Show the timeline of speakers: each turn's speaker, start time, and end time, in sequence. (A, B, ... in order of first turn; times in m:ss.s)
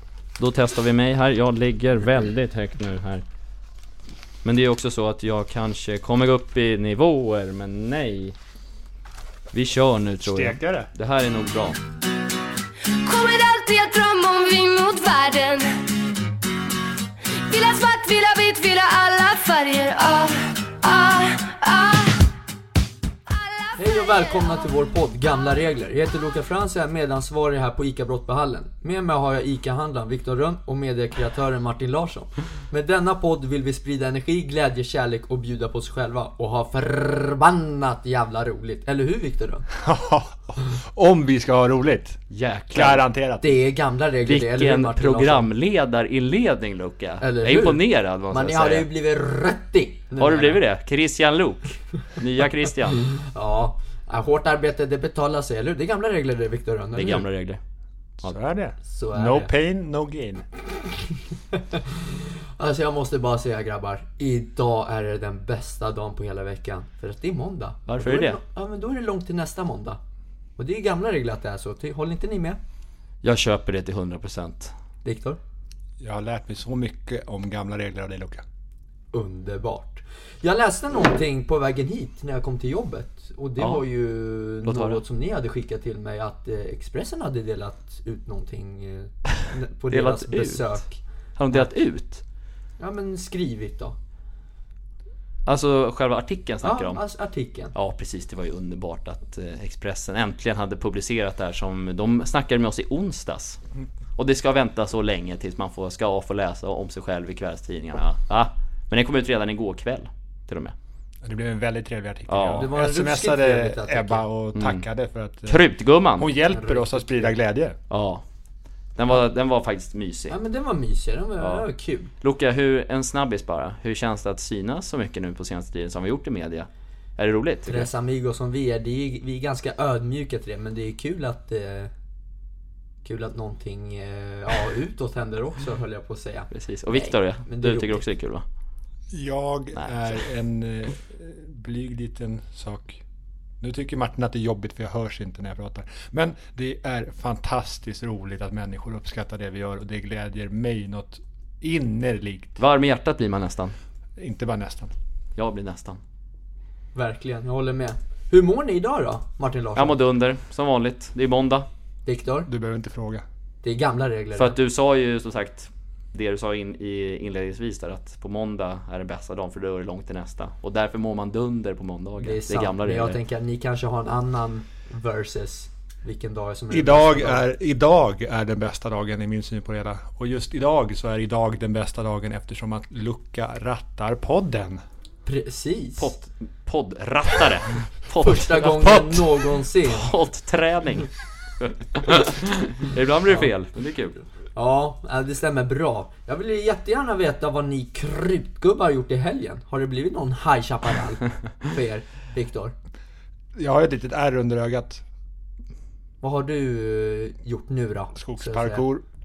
0:00.4-0:03.2 A
0:04.4-0:08.4 A
0:09.5-0:11.8 A
0:10.2-0:10.9 B
0:13.0-0:15.8 C
0:17.5-0:22.3 C
0:23.3-0:24.7 C
0:23.8-0:39.7 D
0:39.8-0:42.2 B
0:42.3-0:43.0 A
0:42.7-0:43.6 B
0:43.4-0:45.5 D
0:44.2-0:48.9 A
0:47.2-0:50.6 D
0:50.2-0:53.1 A
0:53.1-0:57.3 D
0:57.0-0:57.6 A
0:58.2-1:00.4 B
0:58.9-0:59.5 D
1:01.5-1:10.0 D
1:07.9-1:08.4 A
1:10.6-1:12.6 D
1:13.2-1:14.7 A
1:15.0-1:15.4 D
1:16.0-1:18.4 B
1:19.1-1:31.0 D
1:23.6-1:23.8 A
1:24.6-1:25.0 A
1:29.9-1:30.9 A
1:31.4-1:32.2 A
1:32.8-1:34.0 D
1:35.5-1:37.0 A
1:36.6-1:37.7 D
1:37.8-1:43.6 A
1:44.2-1:50.8 A
1:51.2-1:55.6 B
1:52.3-1:52.7 A
1:52.6-1:54.2 D
1:54.6-1:54.8 A
1:55.5-1:56.3 A
1:56.2-1:57.8 B
1:56.5-1:57.3 D
1:57.9-1:58.2 A
1:59.0-2:00.4 A
2:00.3-2:02.1 D
2:01.4-2:01.7 A
2:02.2-2:07.9 A
2:07.6-2:11.9 D
2:13.0-2:18.0 D
2:16.5-2:18.4 A
2:19.1-2:23.0 B
2:19.8-2:20.2 A
2:23.6-2:32.5 B
2:32.6-2:33.8 A
2:34.2-2:34.9 B
2:35.4-2:36.0 A
2:36.9-2:40.0 D
2:39.8-2:41.7 A
2:42.1-2:42.5 D
2:42.5-2:43.2 B
2:43.6-2:44.6 D
2:44.4-2:53.2 A
2:52.2-2:57.5 D
2:56.7-3:04.8 B
3:05.2-3:06.1 D
3:06.0-3:14.2 A
3:08.2-3:10.1 D
3:14.6-3:22.7 D
3:23.6-3:25.0 B
3:26.2-3:28.8 D
3:28.2-3:29.0 B